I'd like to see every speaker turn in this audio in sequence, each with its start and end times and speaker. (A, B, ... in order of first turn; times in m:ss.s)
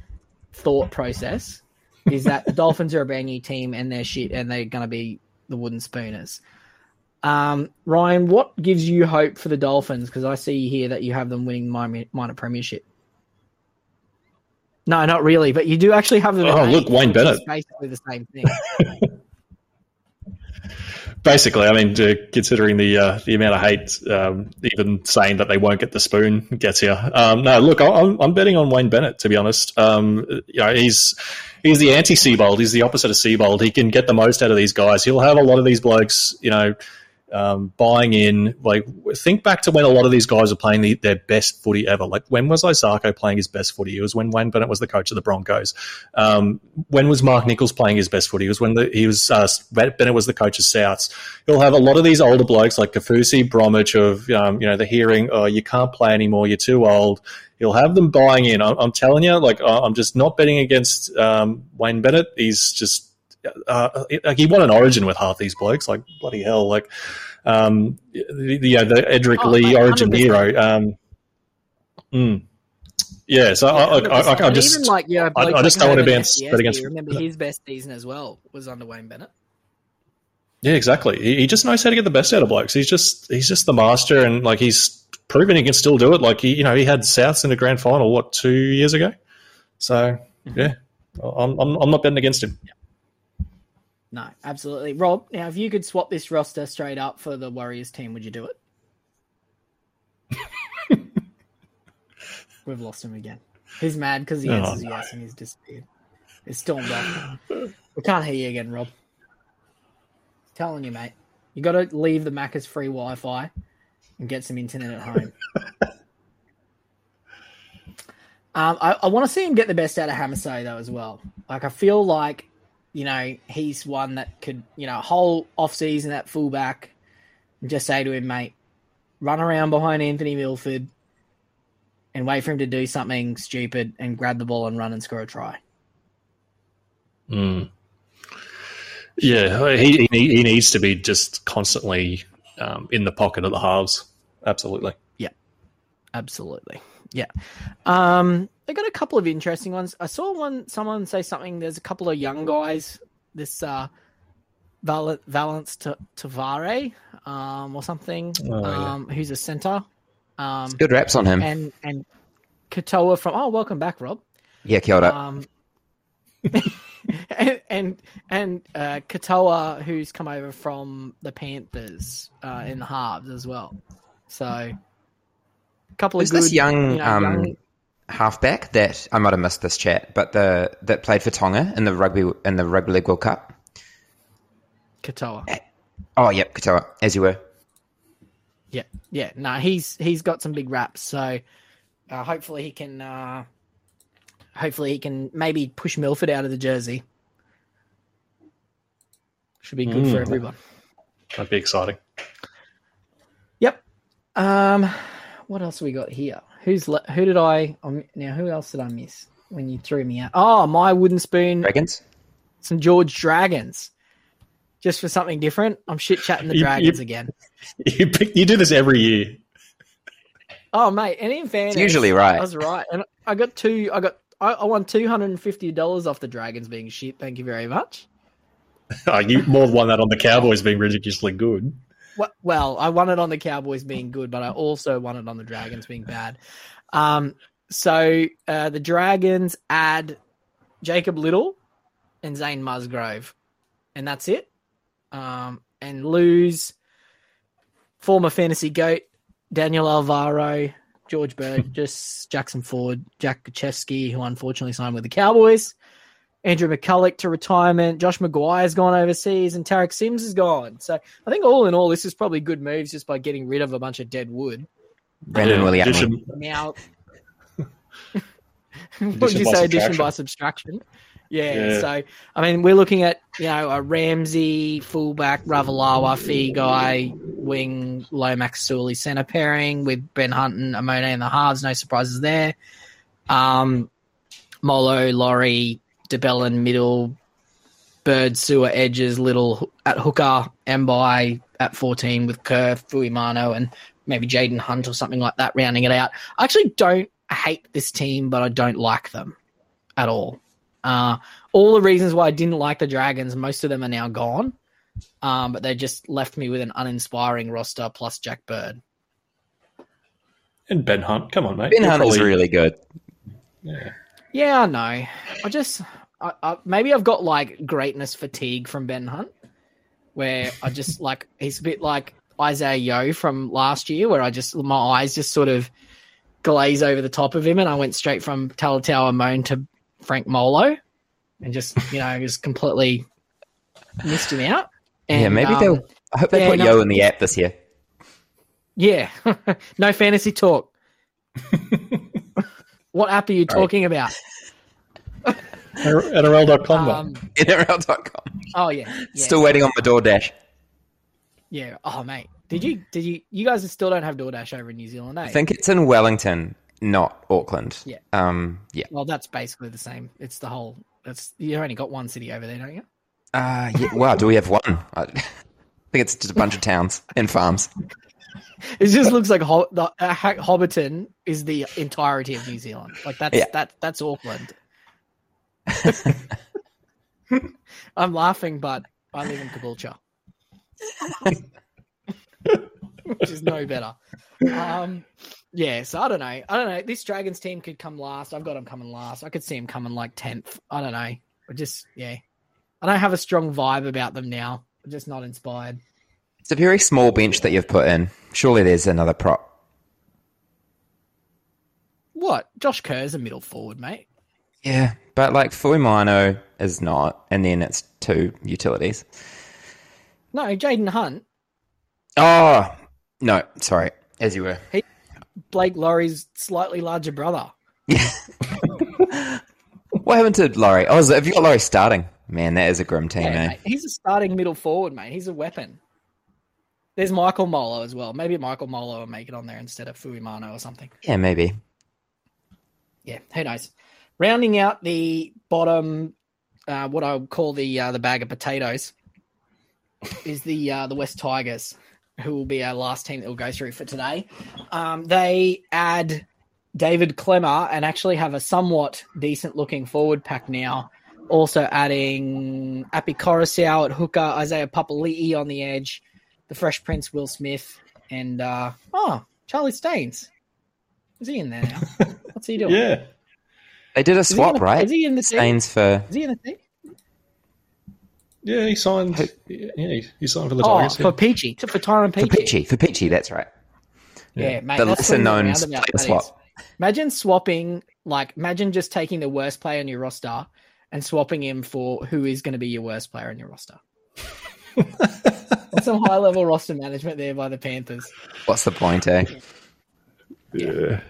0:00.5-0:06.4 A
0:07.2-0:12.8 A
0:14.9-0:18.6 A
0:16.4-0:17.4 B
0:18.5-0:19.1 B
0:21.2-0:36.8 B
0:37.3-1:06.9 B
1:07.4-1:11.0 B
1:09.4-1:10.5 A
1:12.1-1:12.4 B
1:13.3-1:17.2 B
1:13.7-1:19.3 A
1:20.6-1:29.1 B
1:29.8-1:32.6 B
1:34.1-1:38.6 A
1:42.6-1:45.9 A
1:44.5-1:44.9 B
1:46.5-1:47.2 A
1:48.0-1:48.9 A
1:50.6-1:53.5 A
1:54.2-1:55.4 A
1:58.6-2:06.9 A
2:07.6-2:08.5 A
2:09.2-2:10.9 A
2:12.1-2:15.6 A
2:17.3-2:17.7 B
2:19.2-2:25.0 B
2:26.1-2:27.3 A
2:27.9-2:33.9 A
2:34.8-2:39.9 A
2:38.4-2:38.9 B
2:40.4-2:40.8 A
2:40.8-2:41.5 C
2:41.4-2:42.0 A
2:42.7-2:44.2 A
2:44.6-2:45.2 C
2:45.0-2:45.5 A
2:46.5-2:53.8 A
2:54.3-2:54.8 A
2:56.0-2:57.5 A
2:56.2-2:57.6 C
2:58.1-3:03.6 C
3:05.0-3:05.6 A
3:06.2-3:07.4 C
3:08.7-3:11.4 A
3:12.1-3:13.5 A
3:14.6-3:17.0 A
3:19.6-3:20.6 A
3:19.9-3:20.4 B
3:21.4-3:22.0 B
3:24.4-3:31.7 A
3:31.6-3:32.0 C
3:32.6-3:33.9 A
3:34.8-3:37.3 A
3:36.5-3:37.0 B
3:37.8-3:39.4 B
3:40.7-3:48.1 A
3:41.7-3:42.5 C
3:49.1-3:51.8 B
3:52.2-3:56.4 A
3:56.9-4:00.2 A
4:00.8-4:01.6 A
4:02.2-4:03.3 A
4:03.9-4:04.5 A
4:05.1-4:06.8 A
4:08.0-4:15.8 A
4:16.4-4:24.7 A
4:25.4-4:26.1 C
4:25.4-4:26.2 B
4:25.4-4:26.8 A
4:29.0-4:42.6 A
4:29.1-4:30.1 B
4:31.5-4:31.9 B
4:43.3-4:43.9 A
4:44.6-4:47.2 A
4:48.0-4:59.4 A
5:00.0-5:04.6 A
5:05.2-5:08.8 A
5:10.7-5:12.3 B
5:11.7-5:12.8 C
5:13.6-5:13.9 B
5:14.3-5:19.3 A
5:20.2-5:25.7 A
5:26.4-5:30.8 A
5:31.4-5:33.0 A
5:34.0-5:37.0 A
5:35.1-5:37.5 C
5:38.8-5:40.7 A
5:42.9-5:44.1 A
5:45.8-5:47.1 B
5:46.7-5:47.2 A
5:47.4-5:48.5 C
5:48.5-5:49.5 A
5:49.1-5:50.3 C
5:51.5-5:55.4 A
5:55.3-5:58.9 C
5:58.9-6:02.8 A
6:03.3-6:05.3 C
6:05.9-6:07.7 C
6:08.8-6:14.6 A
6:15.7-6:16.1 C
6:18.0-6:20.0 A
6:23.1-6:32.2 A
6:32.8-6:35.8 A
6:36.4-6:39.4 C
6:42.2-6:44.0 A
6:44.6-6:49.1 C
6:50.3-6:51.2 A
6:52.2-6:54.6 C
6:55.5-6:57.5 A
6:57.9-6:59.4 C
7:00.0-7:03.6 C
7:03.2-7:05.8 A
7:07.0-7:10.9 A
7:11.0-7:11.6 C
7:13.1-7:16.1 A
7:16.7-7:18.9 A
7:20.2-7:26.2 A
7:26.8-7:40.3 A
7:41.2-7:42.8 A
7:42.6-7:43.0 B
7:43.9-7:46.1 C
7:44.3-7:45.6 A
7:46.1-7:46.6 A
7:48.4-7:51.1 B
7:50.6-7:52.5 A
7:52.2-7:53.5 C
7:54.4-8:03.8 A
7:54.8-7:56.3 C
8:05.7-8:08.1 A
8:08.5-8:09.3 C
8:10.5-8:11.0 B